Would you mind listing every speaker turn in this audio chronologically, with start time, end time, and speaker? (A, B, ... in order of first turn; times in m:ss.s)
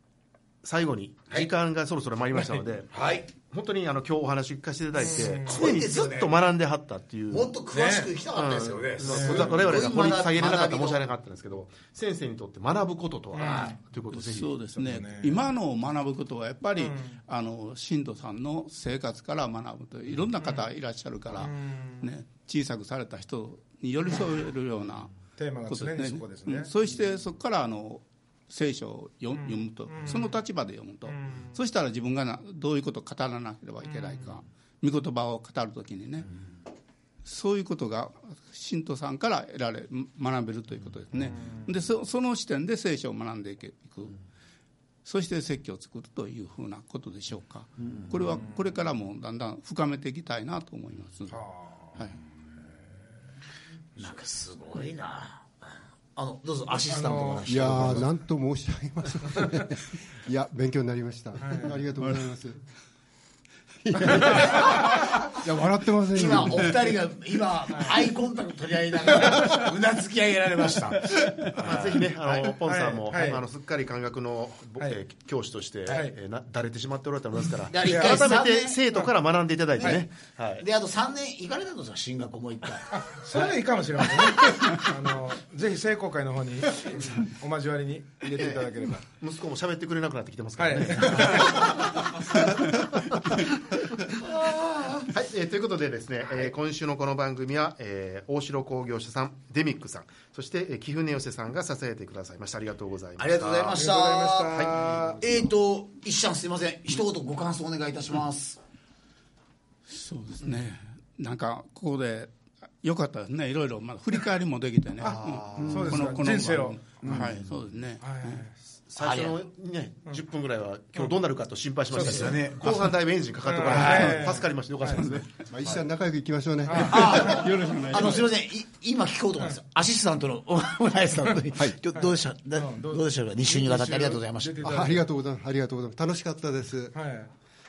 0:00.6-0:07.6 A
0:02.9-0:03.3 B
0:05.0-0:06.4 B
0:05.0-0:05.8 C
0:07.3-0:11.0 B
0:07.7-0:08.2 C
0:08.3-0:14.6 A
0:09.0-0:09.7 C
0:13.3-0:13.8 C
0:13.4-0:13.8 B
0:14.1-0:25.2 D
0:14.8-0:15.4 C
0:16.8-0:17.2 C
0:21.4-0:22.0 C
0:25.4-0:26.7 C
0:25.7-0:36.4 D
0:29.4-0:30.3 C
0:31.1-0:31.5 C
0:33.8-0:34.2 C
0:37.2-0:44.2 D
0:41.4-0:41.7 C
0:45.0-0:51.4 D
0:51.3-0:52.0 C
0:54.0-0:58.1 B
0:56.8-0:58.0 C
0:57.5-1:02.6 E
0:59.3-0:59.6 C
1:01.4-1:01.8 C
1:03.8-1:06.8 E
1:06.1-1:12.0 B
1:07.7-1:08.0 C
1:09.2-1:09.6 C
1:11.2-1:13.4 C
1:11.6-1:20.6 A
1:15.9-1:16.2 C
1:17.7-1:18.8 B
1:17.8-1:19.1 C
1:19.8-1:20.0 B
1:20.6-1:23.0 B
1:22.9-1:29.0 C
1:28.4-1:31.6 A
1:30.6-1:31.7 C
1:34.3-1:35.1 B
1:35.0-1:43.9 A
1:43.2-1:48.6 B
1:43.7-1:45.2 C
1:44.5-1:44.8 A
1:49.9-1:52.3 D
1:52.8-1:58.4 D
1:55.0-1:57.2 C
1:55.0-1:55.8 A
1:55.6-1:56.1 B
1:57.0-1:57.3 B
1:58.0-1:58.5 C
1:58.9-2:05.8 A
1:59.0-1:59.4 B
2:01.9-2:02.4 C
2:01.9-2:02.9 B
2:03.4-2:05.1 C
2:03.6-2:04.3 B
2:05.5-2:07.4 E
2:06.7-2:07.6 C
2:06.8-2:14.7 B
2:07.0-2:08.3 D
2:11.9-2:15.0 C
2:14.6-2:17.0 E
2:16.9-2:17.3 C